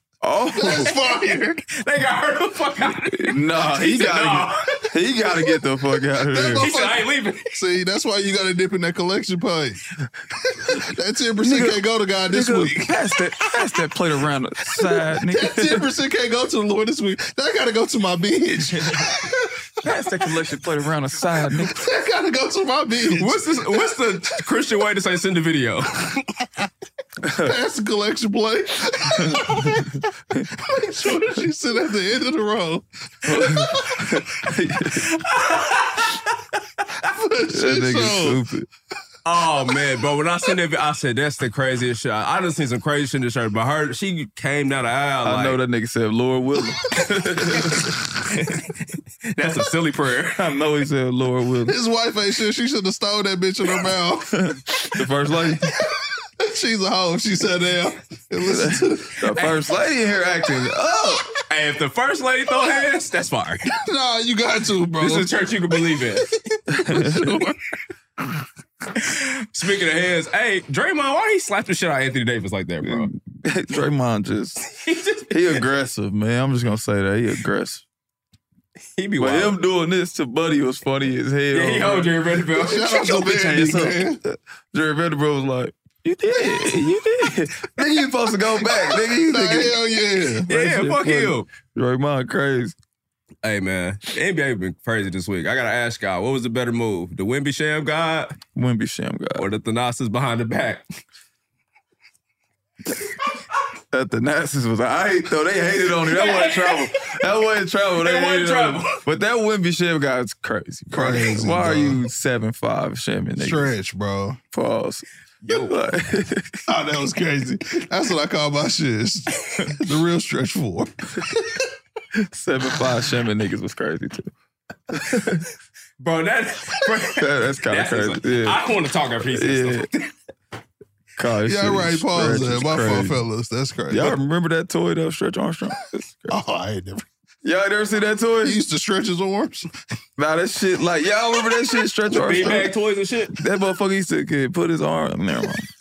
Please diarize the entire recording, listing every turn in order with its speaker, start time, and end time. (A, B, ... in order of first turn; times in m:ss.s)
0:00.2-0:00.9 A
0:00.6-0:01.6 B
0:00.9-0:01.2 C
0:01.7-0:04.6 C
0:03.1-0:06.7 A
0:06.3-0:09.8 B
0:06.6-0:07.4 C
0:10.4-0:13.0 B
0:11.4-0:15.8 A
0:14.8-0:19.5 B
0:19.8-0:21.8 A
0:21.7-0:23.9 B
0:23.1-0:26.2 C
0:27.2-0:27.5 A
0:27.4-0:34.0 B
0:29.3-0:30.5 A
0:33.2-0:35.0 A
0:35.2-0:36.2 C
0:37.1-0:38.4 B
0:37.5-0:38.7 A
0:39.2-0:45.6 C
0:45.2-0:47.9 A
0:48.3-0:48.7 C
0:49.3-0:50.4 C
0:50.4-0:51.8 A
0:51.7-0:54.9 B
0:54.4-0:55.7 A
0:56.4-0:59.1 B
0:58.4-1:01.3 A
1:01.5-1:03.7 C
1:03.8-1:05.3 B
1:05.0-1:06.3 C
1:06.7-1:07.4 A
1:06.8-1:07.6 B
1:09.0-1:13.1 C
1:12.8-1:14.6 A
1:14.7-1:15.6 C
1:15.3-1:17.8 A
1:19.0-1:19.6 C
1:19.2-1:22.1 A
1:21.5-1:23.3 C
1:22.6-1:24.2 B
1:23.0-1:29.8 A
1:27.8-1:30.5 B
1:30.5-1:31.5 C
1:30.5-1:32.8 A
1:33.4-1:38.4 C
1:38.6-1:39.4 A
1:39.4-1:40.8 C
1:43.9-1:53.7 A
1:46.1-1:46.9 C
1:48.0-1:49.0 C
1:50.9-1:52.0 B
1:53.4-1:54.4 B
1:54.5-1:55.1 A
1:55.4-1:55.8 C
1:55.6-1:56.6 A
1:56.7-2:01.6 B
2:02.2-2:04.3 A
2:04.9-2:05.5 A
2:06.0-2:10.0 C
2:07.2-2:08.6 A
2:09.3-2:09.9 A
2:11.2-2:13.2 A
2:11.5-2:14.2 B
2:13.9-2:16.4 A
2:16.3-2:17.1 B
2:17.4-2:18.6 A
2:18.4-2:19.7 B
2:20.2-2:22.7 A
2:22.1-2:23.3 C
2:23.4-2:25.7 A